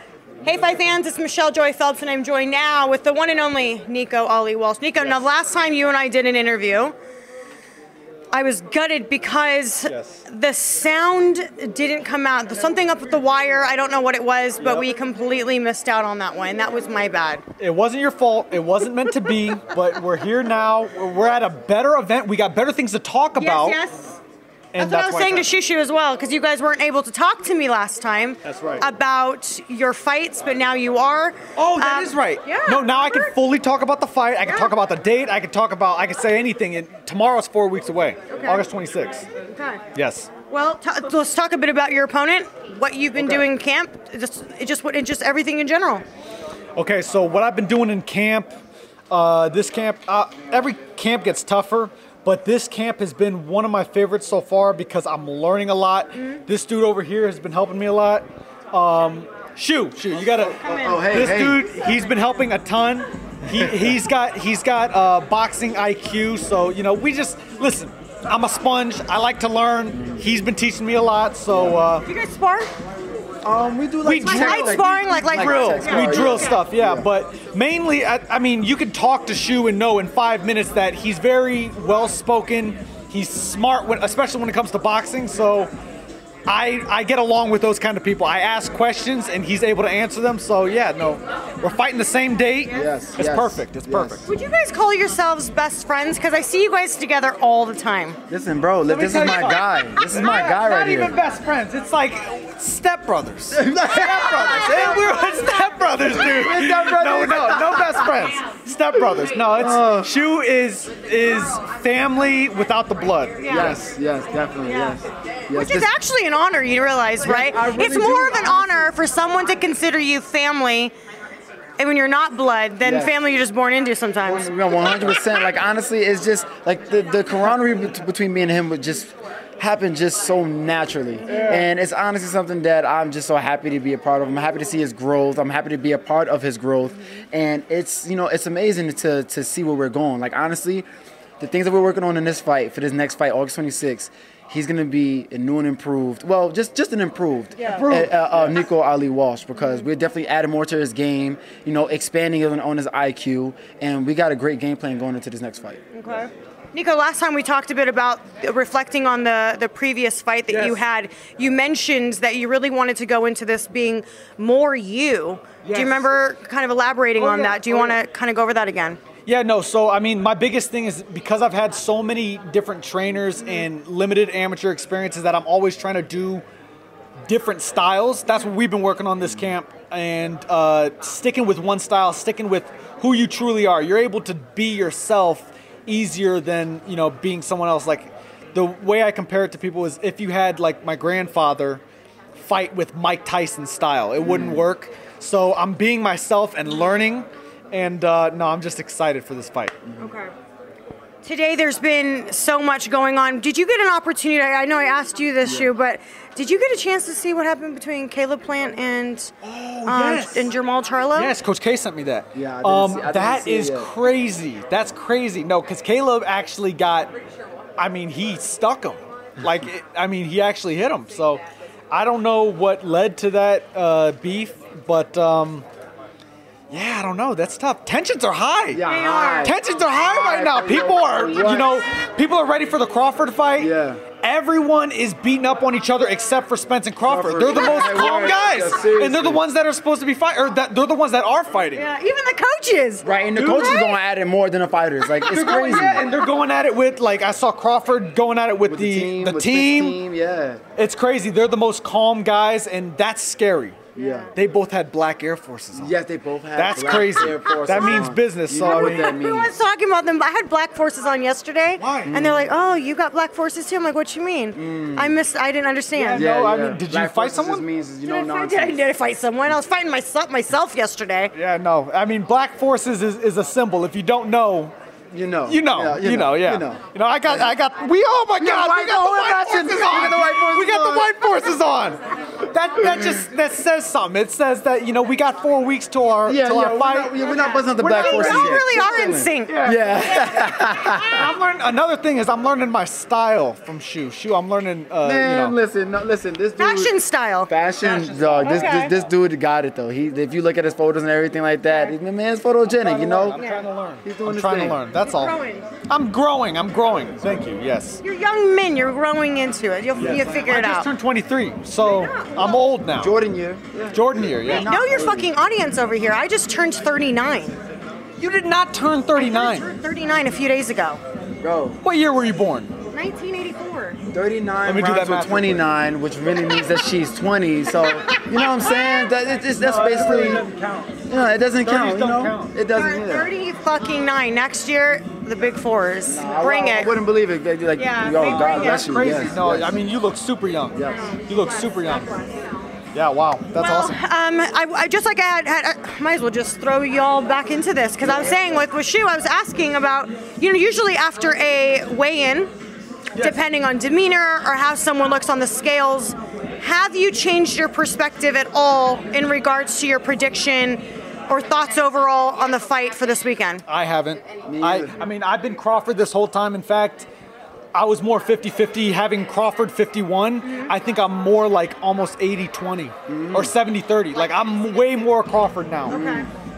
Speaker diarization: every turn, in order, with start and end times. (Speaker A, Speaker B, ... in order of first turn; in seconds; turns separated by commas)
Speaker A: 0.4-7.0, Speaker A: 8.3-17.4, Speaker B: 9.9-10.2, Speaker B: 14.6-14.9, Speaker B: 17.6-23.8, Speaker A: 23.4-24.2, Speaker B: 24.7-25.5, Speaker A: 24.8-33.3, Speaker B: 28.4-28.9, Speaker B: 31.6-39.3, Speaker A: 34.4-34.7, Speaker A: 38.3-38.7, Speaker A: 39.4-39.8, Speaker B: 39.9-40.3, Speaker A: 40.5-46.0, Speaker B: 43.2-43.5, Speaker B: 46.8-48.6, Speaker B: 49.1-72.1, Speaker C: 60.2-61.6, Speaker A: 60.6-62.2, Speaker C: 71.5-71.8, Speaker A: 72.0-72.7, Speaker C: 73.4-77.1, Speaker B: 74.0-85.7, Speaker A: 74.2-76.5, Speaker B: 86.5-94.3, Speaker C: 92.7-94.3, Speaker A: 94.2-98.2, Speaker C: 98.3-101.2, Speaker B: 98.9-113.7, Speaker C: 103.5-104.2, Speaker A: 104.3-105.0, Speaker C: 106.2-108.0, Speaker C: 109.5-110.1, Speaker A: 113.4-113.8, Speaker C: 113.5-115.9, Speaker A: 114.6-120.9, Speaker C: 117.2-118.9, Speaker A: 121.8-124.5, Speaker C: 122.8-123.1, Speaker C: 124.2-140.9, Speaker A: 131.2-131.6, Speaker B: 131.3-131.6, Speaker C: 141.4-155.8, Speaker A: 147.6-147.8, Speaker B: 147.6-148.6, Speaker A: 155.9-169.0, Speaker B: 160.5-160.8, Speaker B: 165.6-166.2, Speaker B: 167.2-168.0, Speaker B: 169.2-176.4, Speaker A: 173.4-173.7, Speaker B: 177.3-191.8, Speaker B: 192.3-199.8, Speaker C: 194.2-194.6, Speaker A: 200.0-200.3, Speaker A: 201.2-209.3, Speaker C: 205.4-205.7, Speaker B: 209.4-210.5, Speaker A: 209.8-211.3, Speaker B: 211.2-217.1, Speaker C: 212.3-213.9, Speaker B: 217.8-225.7, Speaker B: 226.7-228.8, Speaker C: 228.7-231.8, Speaker A: 228.8-229.5, Speaker B: 229.4-241.9, Speaker C: 233.6-234.0, Speaker C: 237.1-239.4, Speaker A: 237.6-238.4, Speaker A: 241.7-243.1, Speaker C: 243.0-246.0, Speaker B: 243.3-243.8, Speaker A: 243.6-244.0, Speaker B: 245.2-250.0, Speaker A: 245.5-246.1, Speaker C: 248.7-250.6, Speaker B: 250.8-253.8, Speaker C: 253.9-254.3, Speaker B: 254.3-256.0, Speaker C: 255.7-259.5, Speaker B: 256.6-259.1, Speaker A: 257.7-258.1, Speaker A: 258.6-266.3, Speaker B: 261.8-262.1, Speaker C: 262.1-262.5, Speaker C: 264.6-265.2, Speaker B: 265.9-267.6, Speaker C: 266.1-268.8, Speaker A: 268.0-271.3, Speaker B: 271.3-274.8, Speaker C: 275.1-277.5, Speaker B: 275.5-290.2, Speaker C: 278.4-281.2, Speaker C: 282.8-283.1, Speaker C: 286.2-291.2, Speaker A: 287.3-289.6, Speaker B: 291.1-295.6, Speaker C: 295.0-296.9, Speaker A: 296.6-297.5, Speaker C: 297.5-303.4, Speaker B: 297.8-299.1, Speaker A: 298.4-298.9, Speaker B: 302.7-305.4, Speaker A: 303.3-303.6, Speaker C: 304.0-304.8, Speaker A: 305.0-305.7, Speaker B: 305.9-308.0, Speaker A: 308.0-310.9, Speaker C: 310.0-310.2, Speaker B: 310.0-313.2, Speaker A: 311.8-312.6, Speaker C: 313.0-315.3, Speaker B: 313.9-314.7, Speaker A: 314.5-317.6, Speaker B: 318.2-319.7, Speaker A: 319.2-321.0, Speaker C: 321.4-321.8, Speaker B: 321.8-322.7, Speaker A: 322.9-324.0, Speaker C: 324.1-330.4, Speaker B: 324.6-325.7, Speaker A: 328.0-329.1, Speaker B: 329.6-331.1, Speaker C: 331.1-333.3, Speaker B: 331.6-332.6, Speaker A: 332.7-336.9, Speaker C: 336.1-339.8, Speaker A: 337.8-338.9, Speaker B: 338.2-342.1, Speaker C: 340.7-341.1, Speaker A: 340.9-342.1, Speaker B: 342.9-344.0, Speaker A: 343.6-352.5, Speaker C: 348.0-348.7, Speaker A: 353.2-363.6, Speaker B: 363.7-367.1, Speaker C: 364.5-365.0, Speaker B: 367.7-376.0, Speaker A: 370.4-370.7, Speaker C: 373.1-373.5, Speaker C: 375.9-376.3, Speaker A: 375.9-376.3